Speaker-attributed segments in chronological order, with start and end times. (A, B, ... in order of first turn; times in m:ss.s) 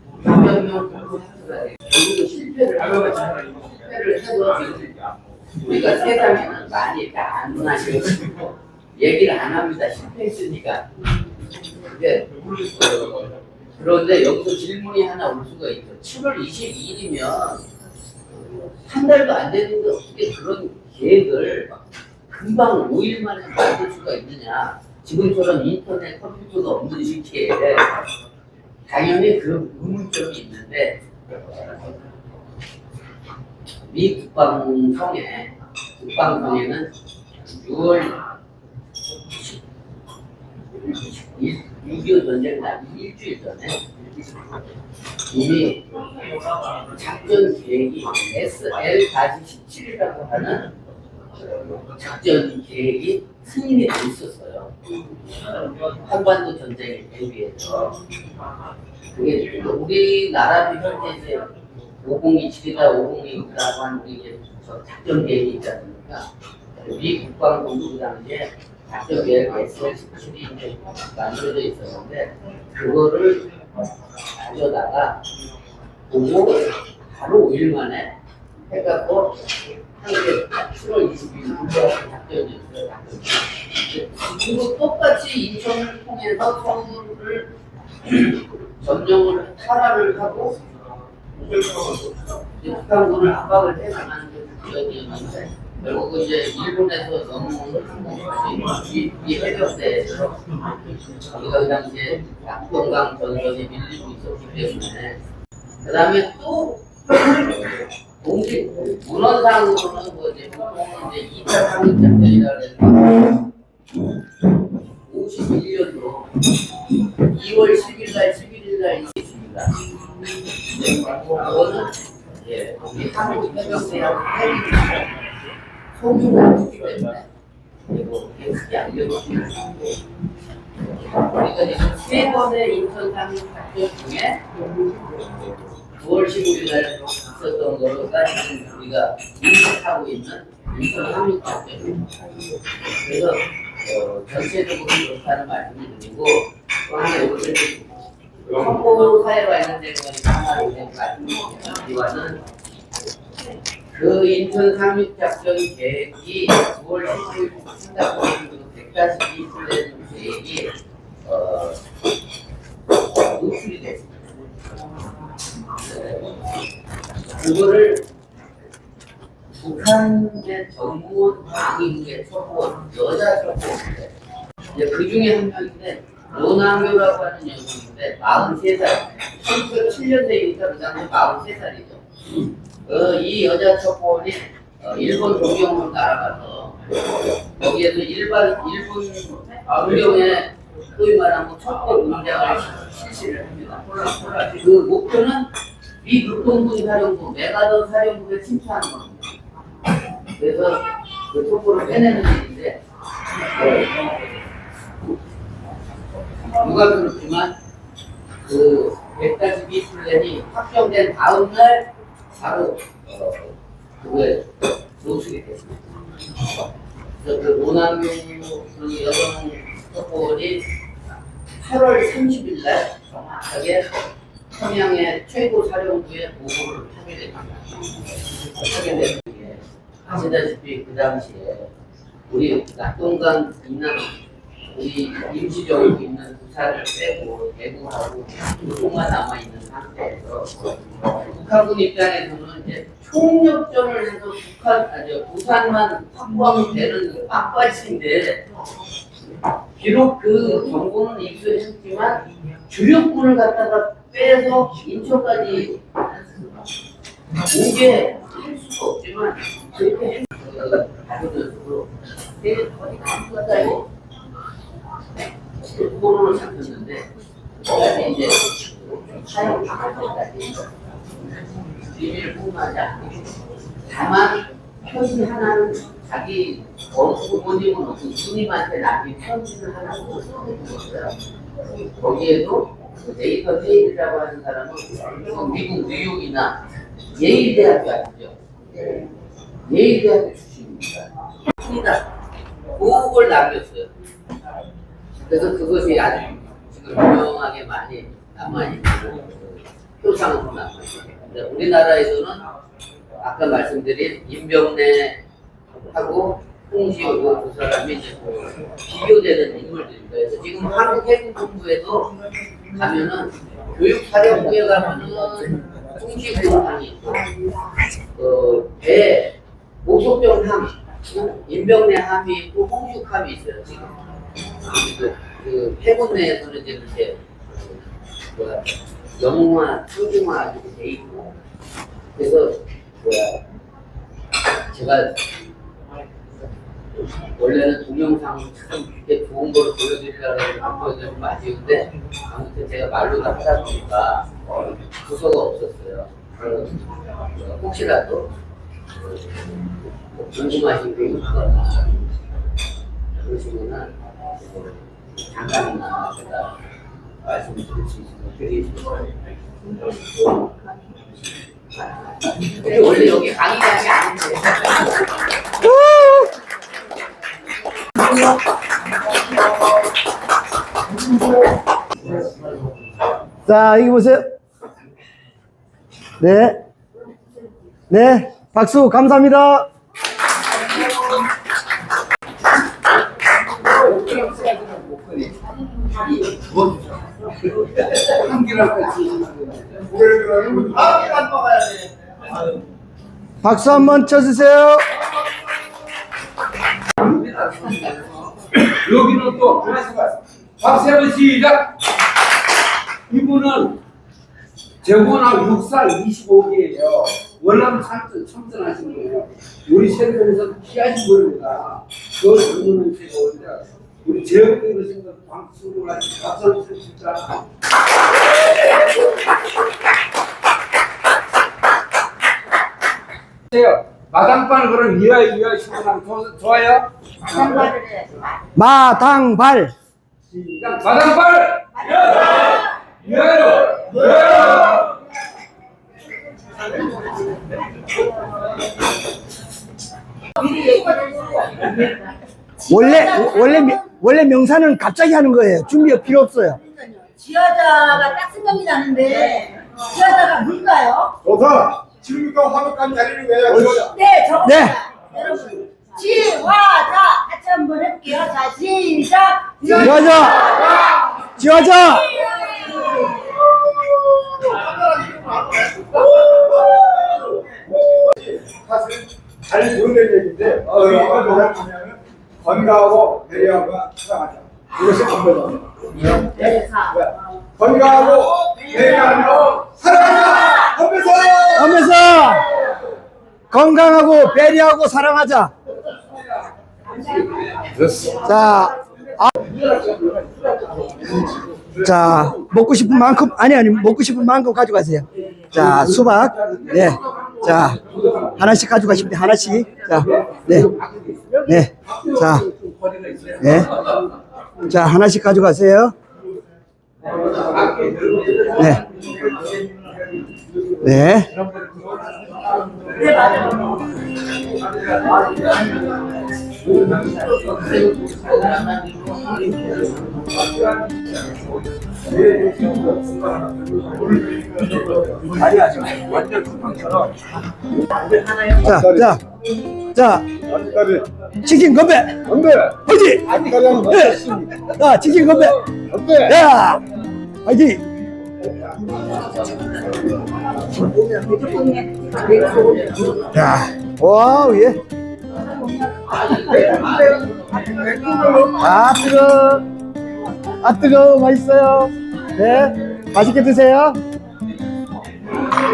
0:00.2-0:04.9 A
0:05.6-0:10.9 A
0:11.8-0:17.6 A
0:18.3-0:28.0 A
0:28.9-0:31.9 A
0:33.9-0:36.9 A
0:37.4-0:38.2 A
0:39.3-0:39.6 A
0:40.7-0:43.9 A
0:45.3-0:46.0 A
0:46.9-0:50.7 A
0:51.4-0:54.8 A
0:55.8-0:58.0 A
0:59.1-1:01.5 A
1:02.0-1:13.5 A
1:14.3-1:15.2 A
1:16.1-1:18.1 A
1:18.7-1:27.5 A
1:28.0-1:30.6 A
1:31.4-1:40.4 A
1:41.2-1:45.2 A
1:45.8-1:53.3 A
1:55.1-1:56.4 A
1:57.2-1:59.7 A
2:00.7-2:05.1 A
2:05.9-2:07.3 A
2:07.9-2:09.9 A
2:11.1-2:14.5 A
2:15.8-2:22.2 A
2:22.8-2:27.9 A
2:28.5-2:32.4 A
2:33.9-2:40.7 A
2:41.2-2:41.8 A
2:43.1-2:44.2 A
2:45.8-2:46.4 A
2:47.4-2:48.0 A
2:49.6-2:54.1 A
2:54.7-3:02.0 A
3:02.8-3:06.8 A
3:07.5-3:15.5 A
3:16.0-3:19.3 A
3:20.4-3:22.8 A
3:23.4-3:24.4 A
3:26.5-3:27.6 A
3:28.4-3:35.8 A
3:37.2-3:40.6 A
3:41.6-3:43.9 A
3:44.5-3:47.9 A
3:48.4-3:51.7 A
3:52.3-3:54.2 A
3:54.7-4:08.4 A
4:09.8-4:16.0 A
4:17.5-4:23.9 A
4:25.6-4:27.1 A
4:27.6-4:30.7 A
4:31.9-4:33.3 A
4:33.9-4:41.1 A
4:41.8-4:46.6 A
4:47.1-4:49.0 A
4:49.7-4:52.0 A
4:52.8-4:53.9 A
4:55.2-5:02.4 A
5:03.2-5:05.2 A
5:05.9-5:12.1 A
5:12.7-5:17.3 A
5:18.1-5:23.9 A
5:24.6-5:27.8 A
5:28.3-5:31.3 A
5:32.1-5:33.4 A
5:34.7-5:35.2 A
5:37.0-5:48.3 A
5:48.9-5:52.1 A
5:53.2-5:56.5 A
5:57.2-5:59.1 A
6:02.4-6:04.9 A
6:05.6-6:06.3 B
6:13.5-6:14.3 B
6:16.2-6:16.6 B
6:17.9-6:19.7 B
6:23.6-6:25.4 C
6:26.1-6:26.8 C
6:27.4-6:29.9 C
6:29.9-6:31.5 D
6:33.4-6:34.9 B
6:37.0-6:41.8 C
6:43.1-6:43.8 C
6:44.8-6:57.4 C
7:03.5-7:06.9 C
7:07.3-7:08.0 E
7:08.6-7:09.7 B
7:10.4-7:14.9 C
7:20.4-7:23.9 E
7:22.7-7:26.6 B
7:26.7-7:31.1 E
7:31.2-7:34.0 D
7:33.8-7:40.8 E
7:34.4-7:34.8 B
7:39.7-7:40.7 B
7:41.2-7:42.2 B
7:42.2-7:43.0 E
7:44.5-8:02.1 D
7:50.7-7:51.2 C
7:56.4-7:56.9 E
8:01.6-8:02.5 B
8:03.5-8:05.5 B
8:06.9-8:08.2 C
8:08.0-8:09.3 B
8:09.4-8:11.8 C
8:11.8-8:20.7 B
8:16.1-8:18.3 C
8:19.7-8:24.1 C
8:21.5-8:22.5 B
8:23.4-8:23.7 B
8:24.6-8:26.0 B
8:27.0-8:29.9 C
8:28.5-8:28.8 B
8:30.8-8:31.3 B
8:31.4-8:33.3 C
8:33.2-8:33.8 E
8:34.6-8:36.0 C
8:36.6-8:40.3 A
8:40.4-8:41.1 C
8:42.0-8:47.2 C
8:48.0-8:49.2 D
8:48.6-8:49.2 B
8:49.9-8:50.3 B
8:50.4-8:51.1 D
8:51.4-8:52.2 B
8:52.2-8:54.5 D
8:52.8-8:55.6 B
8:55.9-8:56.3 D
8:56.2-8:56.8 B
8:57.5-8:57.8 B
8:58.9-9:00.2 A
9:00.7-9:03.1 E
9:02.1-9:03.6 A
9:03.3-9:04.8 B
9:05.9-9:08.0 A
9:07.8-9:08.5 E
9:08.5-9:09.7 B
9:10.6-9:14.0 B